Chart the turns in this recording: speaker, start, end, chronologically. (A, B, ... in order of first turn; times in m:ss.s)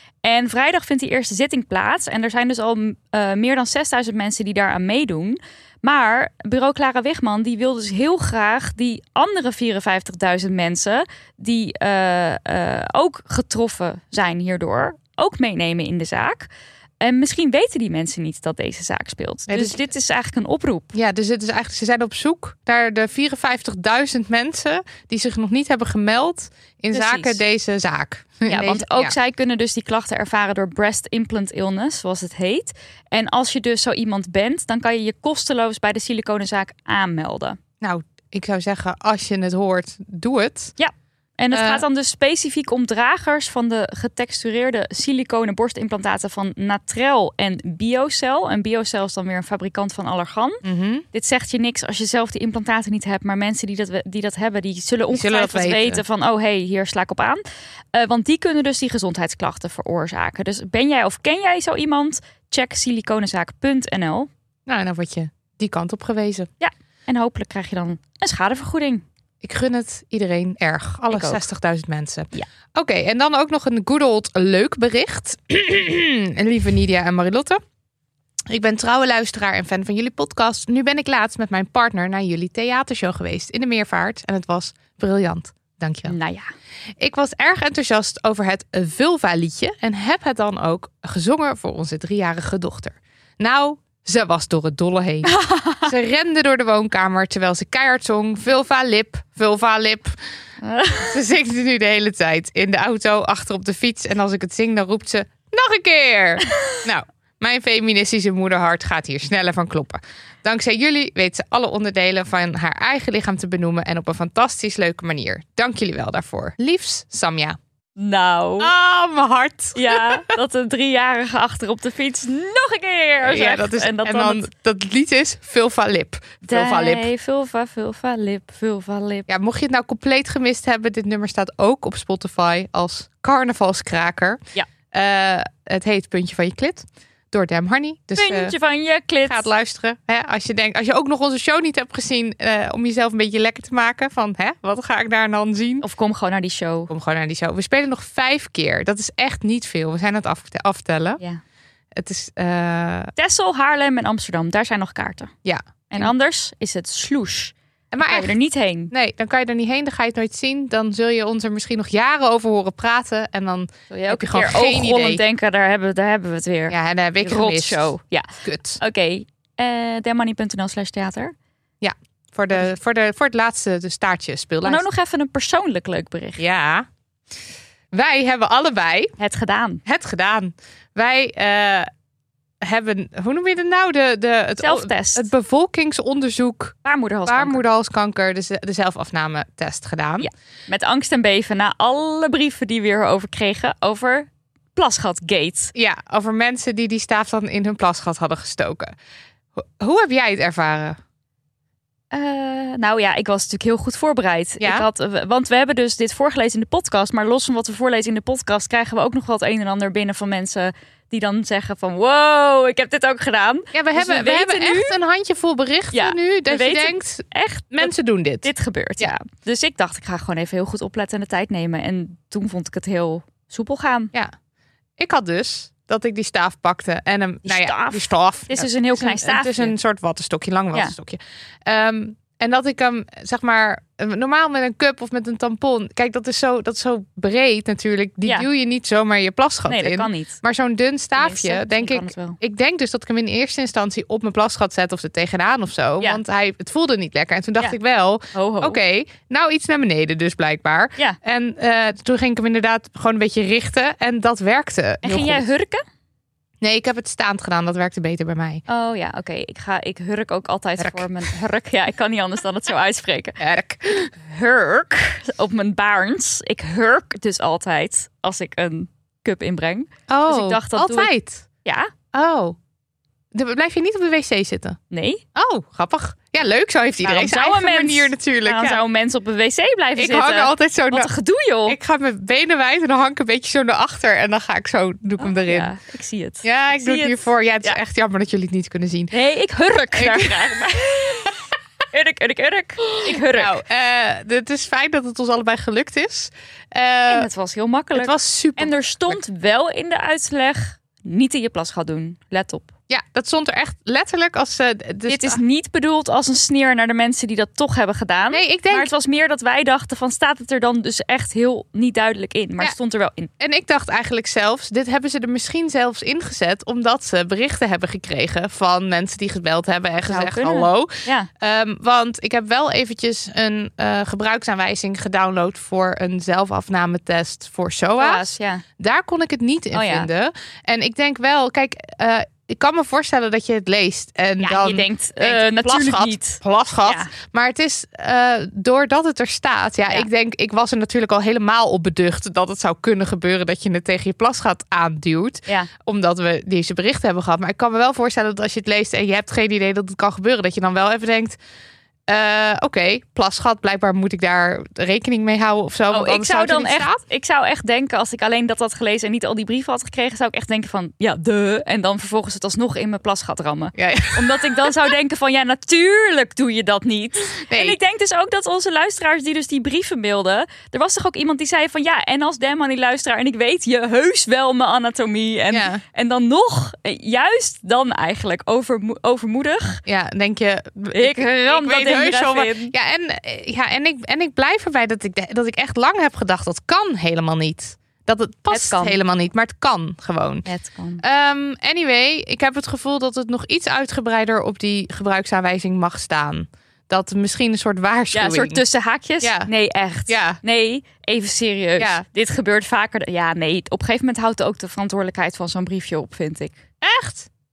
0:00.2-0:20.9 A
0:19.5-0:19.8 B
0:20.9-0:29.2 B
0:26.9-0:27.4 A
0:28.5-0:37.6 A
0:37.8-0:40.8 B
0:40.8-0:57.4 A
0:41.5-0:41.8 B
0:50.6-0:51.0 B
0:55.1-0:56.0 B
0:57.9-1:04.3 A
1:04.7-1:06.5 B
1:06.6-1:09.0 A
1:09.4-1:17.6 B
1:11.1-1:11.4 A
1:18.5-1:26.2 B
1:26.1-1:26.5 A
1:27.0-1:40.2 B
1:35.2-1:35.9 A
1:40.6-1:41.2 A
1:41.1-1:57.6 B
1:58.0-1:58.7 A
1:58.6-2:00.4 B
1:59.8-2:04.5 A
2:03.2-2:07.1 B
2:06.4-2:09.3 A
2:09.3-2:14.4 B
2:14.9-2:18.5 B
2:18.2-2:19.5 A
2:19.3-2:25.8 B
2:25.8-2:26.9 A
2:26.9-2:31.2 B
2:32.0-2:33.1 B
2:33.2-2:35.3 A
2:35.4-2:36.1 B
2:35.9-2:38.9 A
2:37.9-2:38.3 B
2:38.9-2:45.2 B
2:43.9-2:48.3 A
2:46.7-2:48.8 B
2:48.8-2:51.3 A
2:51.8-2:54.8 B
2:54.6-2:56.4 A
2:56.4-2:56.9 B
2:57.9-2:59.2 B
2:59.2-2:59.8 A
2:59.9-3:01.9 B
3:02.6-3:10.3 B
3:04.6-3:05.3 A
3:06.8-3:07.6 A
3:10.2-3:15.7 A
3:15.8-3:18.9 B
3:19.6-3:21.0 B
3:22.1-3:35.0 A
3:24.6-3:24.9 B
3:33.7-3:39.1 B
3:35.9-3:37.9 A
3:38.4-3:44.1 A
3:45.0-4:15.5 B
3:47.5-3:49.7 A
3:59.7-4:00.4 A
4:01.2-4:02.4 A
4:08.3-4:08.8 A
4:15.0-4:15.8 A
4:16.6-4:18.6 B
4:18.7-4:23.4 A
4:20.8-4:21.1 B
4:23.4-4:24.1 B
4:24.2-4:31.1 A
4:30.1-4:31.5 B
4:31.6-4:31.9 A
4:32.1-4:32.6 B
4:33.3-4:34.8 B
4:34.9-4:35.2 A
4:35.4-4:38.8 B
4:37.0-4:41.8 A
4:40.0-4:41.1 B
4:41.7-4:45.7 B
4:45.2-4:47.8 A
4:46.4-4:49.1 B
4:49.1-4:51.3 A
4:49.7-4:51.3 B
4:51.9-4:53.6 A
4:53.0-4:57.3 B
4:57.1-5:02.7 A
4:57.9-4:59.2 B
5:02.9-5:05.4 B
5:05.1-5:13.3 A
5:08.3-5:08.9 B
5:13.4-5:51.4 B
5:20.1-5:21.3 A
5:28.0-5:28.6 A
5:29.7-5:30.1 A
5:34.4-5:37.1 A
5:52.1-5:57.0 B
5:55.9-6:19.8 A
6:03.8-6:04.7 B
6:07.5-6:07.8 B
6:15.5-6:15.8 B
6:19.9-6:30.5 B
6:20.9-6:22.7 A
6:28.5-6:29.0 A
6:30.5-6:31.0 A
6:31.0-6:38.6 B
6:38.1-6:46.6 A
6:39.2-6:39.5 B
6:40.1-6:40.4 B
6:41.8-6:42.0 B
6:46.8-6:47.3 B